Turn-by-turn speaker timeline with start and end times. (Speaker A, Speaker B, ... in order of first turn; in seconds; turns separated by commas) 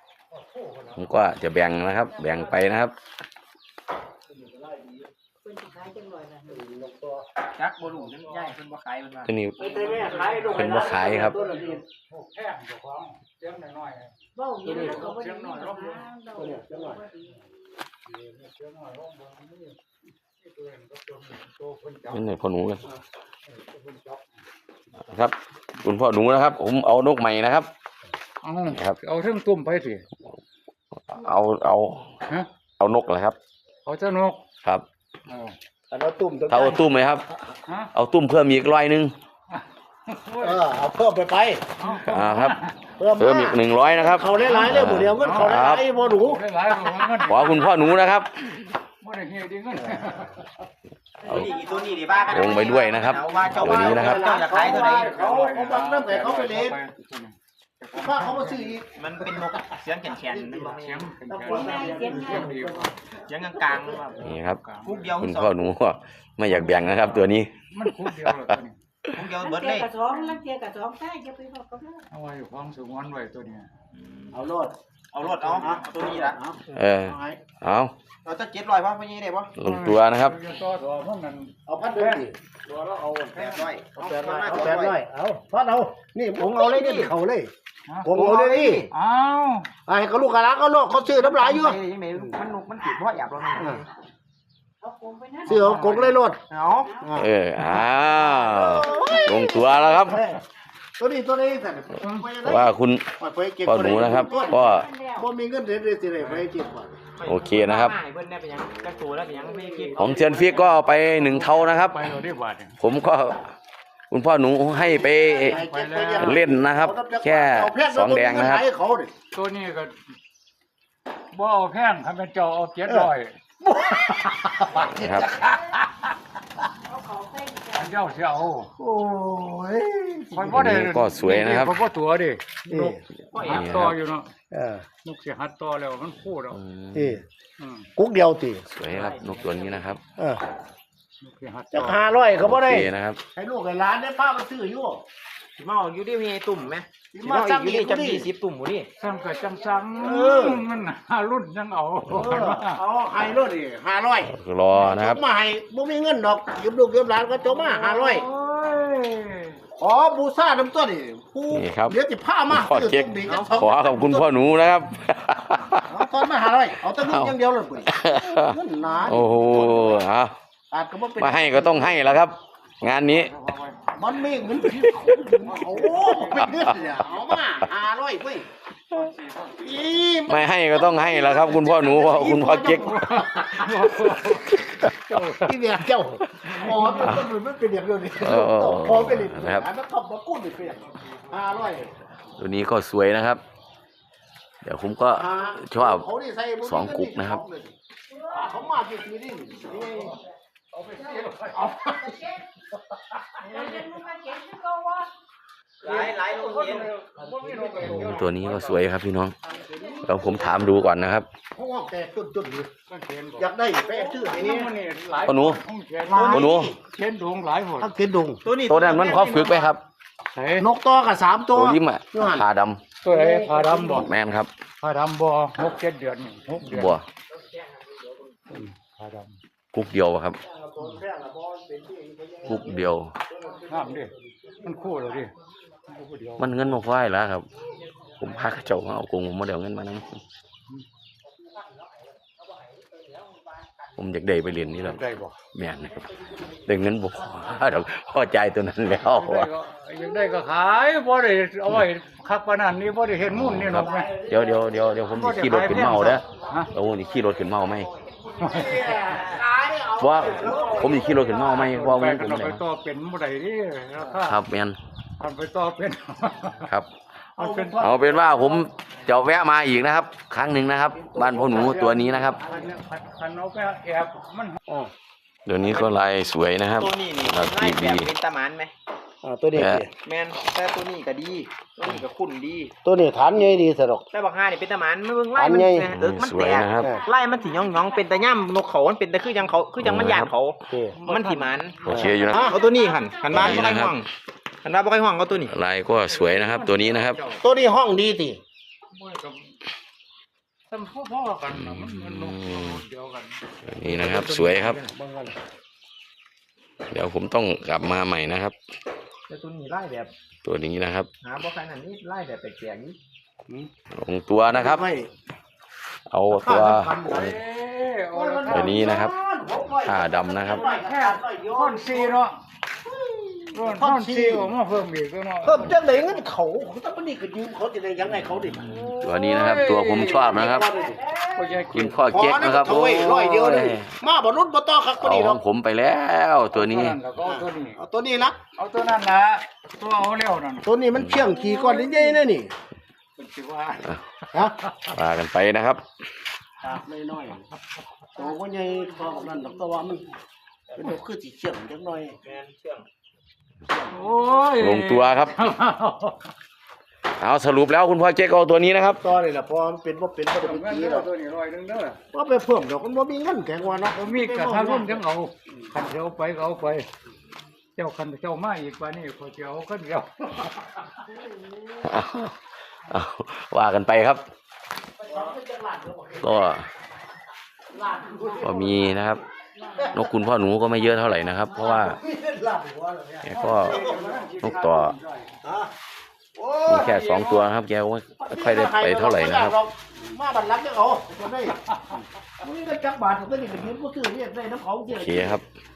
Speaker A: 0.3-1.1, Speaker B: 0.9-2.9, Speaker C: 4.5-4.9, Speaker D: 5.4-6.6, Speaker C: 6.5-7.2, Speaker E: 7.5-9.3, Speaker A: 8.0-8.5, Speaker B: 9.3-9.6, Speaker C: 9.6-11.8, Speaker A: 9.6-16.0, Speaker B: 10.5-11.3, Speaker D: 14.3-17.5, Speaker C: 14.6-15.1, Speaker C: 16.3-17.0, Speaker A: 18.1-19.8, Speaker A: 20.4-22.4, Speaker B: 22.1-22.8, Speaker A: 23.4-24.4, Speaker B: 25.1-27.7, Speaker A: 28.4-30.0, Speaker B: 31.1-32.1, Speaker B: 32.8-33.4, Speaker A: 33.8-34.4, Speaker A: 35.3-35.5, Speaker C: 35.9-36.8, Speaker B: 36.5-37.2, Speaker A: 37.6-37.9, Speaker B: 37.9-39.1, Speaker A: 39.5-40.7, Speaker C: 40.4-41.7, Speaker A: 41.8-42.8, Speaker B: 42.0-42.6, Speaker C: 43.0-47.4, Speaker B: 43.1-45.8, Speaker A: 44.3-47.7, Speaker B: 47.1-48.7, Speaker A: 49.0-50.4, Speaker D: 51.2-53.5, Speaker B: 51.3-51.5, Speaker E: 51.3-55.2, Speaker B: 52.3-54.2, Speaker C: 53.5-56.8, Speaker A: 54.4-58.8, Speaker C: 58.0-59.5, Speaker E: 59.0-61.1, Speaker C: 60.1-62.9, Speaker A: 60.8-62.9, Speaker D: 61.5-62.5, Speaker E: 62.1-62.5, Speaker E: 63.3-64.2, Speaker C: 63.6-64.2, Speaker A: 64.2-65.2, Speaker B: 64.2-64.6, Speaker E: 64.8-65.6, Speaker B: 65.2-68.5, Speaker A: 66.5-68.8, Speaker E: 69.1-69.9, Speaker D: 69.3-72.0, Speaker A: 72.1-73.7, Speaker E: 73.9-74.3, Speaker C: 74.3-74.7, Speaker E: 75.1-76.4, Speaker C: 75.4-77.4, Speaker B: 76.7-77.9, Speaker E: 78.2-79.5, Speaker B: 79.5-80.3, Speaker A: 79.6-83.7, Speaker C: 81.7-82.3, Speaker E: 83.3-85.0, Speaker C: 83.9-87.5, Speaker E: 86.4-87.1, Speaker C: 88.0-88.8, Speaker E: 88.1-88.9, Speaker A: 88.9-89.7, Speaker C: 89.8-91.8, Speaker E: 91.2-93.9, Speaker C: 93.5-93.8, Speaker D: 94.8-96.0, Speaker C: 95.5-96.4, Speaker A: 95.5-96.1, Speaker E: 96.5-96.9, Speaker D: 96.8-97.2, Speaker C: 97.0-97.3, Speaker B: 97.2-100.2, Speaker C: 98.1-100.4, Speaker D: 98.9-99.7, Speaker C: 101.0-106.9, Speaker A: 102.0-102.3, Speaker B: 102.4-103.1, Speaker B: 103.6-104.9, Speaker D: 104.0-105.3, Speaker A: 106.2-106.4, Speaker E: 107.2-110.5, Speaker B: 107.2-107.9, Speaker A: 109.4-112.8, Speaker B: 110.0-112.0, Speaker B: 112.8-113.4, Speaker B: 114.1-115.6, Speaker C: 115.3-119.1, Speaker A: 115.3-116.4, Speaker B: 116.2-118.6, Speaker A: 119.3-120.0, Speaker A: 121.3-123.4, Speaker C: 122.8-125.8, Speaker A: 124.4-125.0, Speaker B: 124.9-125.3, Speaker D: 126.8-128.1, Speaker A: 127.8-128.7, Speaker C: 128.8-130.7, Speaker A: 130.3-134.3, Speaker B: 130.5-131.8, Speaker C: 132.7-133.0, Speaker E: 133.3-133.9, Speaker B: 133.4-133.9, Speaker C: 134.5-134.8, Speaker A: 135.0-136.6, Speaker B: 136.5-137.2, Speaker C: 136.9-137.2, Speaker A: 137.6-137.9, Speaker C: 137.9-138.6, Speaker B: 138.7-140.0, Speaker E: 138.8-139.9, Speaker C: 140.2-140.4, Speaker A: 141.2-142.1, Speaker C: 141.7-145.0, Speaker B: 142.3-143.2, Speaker E: 145.6-148.9, Speaker C: 147.1-148.3, Speaker A: 149.0-152.8, Speaker D: 149.0-150.5, Speaker C: 150.0-150.6, Speaker C: 152.1-158.3, Speaker B: 154.3-155.2, Speaker A: 157.4-159.6, Speaker C: 159.8-164.3, Speaker B: 161.5-161.9, Speaker B: 162.5-165.9, Speaker E: 163.2-163.5, Speaker C: 165.7-170.1, Speaker B: 167.0-167.3, Speaker B: 167.9-170.3, Speaker C: 170.7-172.2, Speaker B: 171.2-173.3, Speaker A: 172.8-173.8, Speaker C: 173.9-178.5, Speaker B: 174.6-175.3, Speaker A: 175.4-177.3, Speaker B: 176.2-176.7, Speaker A: 178.9-179.9, Speaker C: 179.6-191.9, Speaker B: 180.3-183.0, Speaker A: 182.9-185.6, Speaker A: 186.4-187.3, Speaker B: 188.2-189.6, Speaker A: 190.8-191.6, Speaker B: 192.4-193.4, Speaker B: 194.6-196.0, Speaker C: 195.1-197.7, Speaker B: 196.6-197.4, Speaker D: 198.1-198.6, Speaker C: 198.3-200.2, Speaker A: 200.7-201.9, Speaker D: 200.9-202.5, Speaker D: 203.4-205.1, Speaker A: 205.8-208.9, Speaker E: 205.8-206.9, Speaker C: 207.1-208.3, Speaker B: 207.8-209.3, Speaker D: 209.7-210.6, Speaker B: 210.0-211.3, Speaker C: 211.5-212.7, Speaker A: 212.9-217.9, Speaker C: 213.4-214.7, Speaker B: 215.2-215.6, Speaker C: 216.1-216.8, Speaker E: 216.1-216.5, Speaker B: 216.2-216.7, Speaker C: 217.8-218.4, Speaker E: 218.4-219.7, Speaker B: 218.7-219.8, Speaker A: 220.3-220.7, Speaker C: 220.6-222.4, Speaker B: 221.5-222.8, Speaker A: 223.0-224.1, Speaker C: 223.1-224.1, Speaker B: 223.9-224.5, Speaker A: 224.8-227.0, Speaker B: 226.6-227.0, Speaker E: 227.3-228.4, Speaker A: 228.5-229.4, Speaker B: 229.7-230.4, Speaker C: 230.4-235.3, Speaker B: 232.4-233.1, Speaker A: 233.7-235.3, Speaker A: 235.9-236.8, Speaker B: 236.4-237.5, Speaker B: 238.2-240.2, Speaker C: 241.4-242.9, Speaker B: 243.9-246.0, Speaker A: 244.7-245.4, Speaker B: 246.6-249.5, Speaker A: 249.1-254.1, Speaker B: 253.2-257.9, Speaker C: 253.8-254.6, Speaker A: 255.1-256.7, Speaker E: 256.8-259.4, Speaker A: 258.4-259.0, Speaker C: 258.4-261.8, Speaker B: 260.0-262.6, Speaker E: 260.5-260.8, Speaker A: 261.5-264.4, Speaker B: 264.1-264.8, Speaker A: 265.2-266.7, Speaker A: 267.4-267.8, Speaker C: 267.4-268.7, Speaker B: 267.8-272.4, Speaker C: 270.9-272.7, Speaker A: 271.4-274.6, Speaker B: 275.4-278.1, Speaker E: 275.6-276.0, Speaker E: 276.8-278.7, Speaker C: 279.2-279.9, Speaker B: 279.5-279.9, Speaker E: 280.0-282.7, Speaker C: 282.8-284.0, Speaker E: 284.1-291.8, Speaker C: 285.3-285.9, Speaker B: 285.9-286.9, Speaker D: 286.7-288.4, Speaker C: 286.8-287.0, Speaker B: 289.8-290.3, Speaker C: 290.7-290.9, Speaker A: 290.9-292.3, Speaker B: 291.9-292.5, Speaker C: 291.9-292.6, Speaker D: 292.2-293.8, Speaker E: 292.3-294.1, Speaker B: 293.3-293.9, Speaker E: 294.6-295.5, Speaker B: 295.5-297.2, Speaker A: 296.0-297.4, Speaker C: 297.4-298.4, Speaker A: 298.9-299.5, Speaker A: 300.7-304.9, Speaker B: 301.5-302.8, Speaker B: 303.6-304.8, Speaker C: 304.9-305.4, Speaker B: 306.9-308.6, Speaker E: 309.3-310.1, Speaker B: 310.4-311.1, Speaker E: 311.2-312.9, Speaker B: 313.9-314.8, Speaker C: 314.5-315.1, Speaker B: 316.1-317.1, Speaker C: 316.3-317.4, Speaker A: 317.1-319.1, Speaker C: 318.1-322.2, Speaker B: 318.5-319.1, Speaker B: 319.8-320.6, Speaker A: 320.4-322.4, Speaker C: 322.8-324.5, Speaker A: 323.5-325.8, Speaker C: 325.4-328.9, Speaker A: 328.6-332.0, Speaker B: 329.0-330.7, Speaker C: 329.8-331.0, Speaker D: 330.8-331.6, Speaker B: 331.7-333.9, Speaker C: 332.1-335.4, Speaker B: 335.0-337.0, Speaker A: 336.5-337.8, Speaker C: 337.2-338.4, Speaker A: 338.6-342.2, Speaker C: 340.6-342.5, Speaker B: 340.9-341.3, Speaker A: 343.1-344.9, Speaker B: 344.9-345.8, Speaker C: 346.6-347.4, Speaker C: 348.1-350.0, Speaker D: 348.5-349.8, Speaker C: 350.7-352.1, Speaker E: 352.2-352.9, Speaker A: 353.9-356.2, Speaker B: 354.6-355.4, Speaker B: 357.2-359.0, Speaker C: 358.9-361.1, Speaker A: 360.4-362.0, Speaker C: 362.1-365.7, Speaker A: 363.9-366.9, Speaker A: 367.8-370.8, Speaker D: 371.1-371.9, Speaker B: 371.8-374.2, Speaker C: 375.0-376.6, Speaker B: 376.2-376.7, Speaker C: 377.7-379.0, Speaker D: 378.0-378.4, Speaker B: 378.4-379.2, Speaker D: 379.5-380.2, Speaker C: 379.8-380.1, Speaker B: 379.9-382.0, Speaker D: 381.4-381.8, Speaker C: 381.5-384.3, Speaker B: 383.2-383.8, Speaker A: 383.3-385.3, Speaker B: 384.4-384.9, Speaker C: 385.4-385.7, Speaker C: 386.4-387.4, Speaker E: 386.6-387.3, Speaker B: 386.7-389.6, Speaker C: 388.2-391.5, Speaker A: 391.6-392.1, Speaker C: 392.4-395.4, Speaker B: 394.9-395.4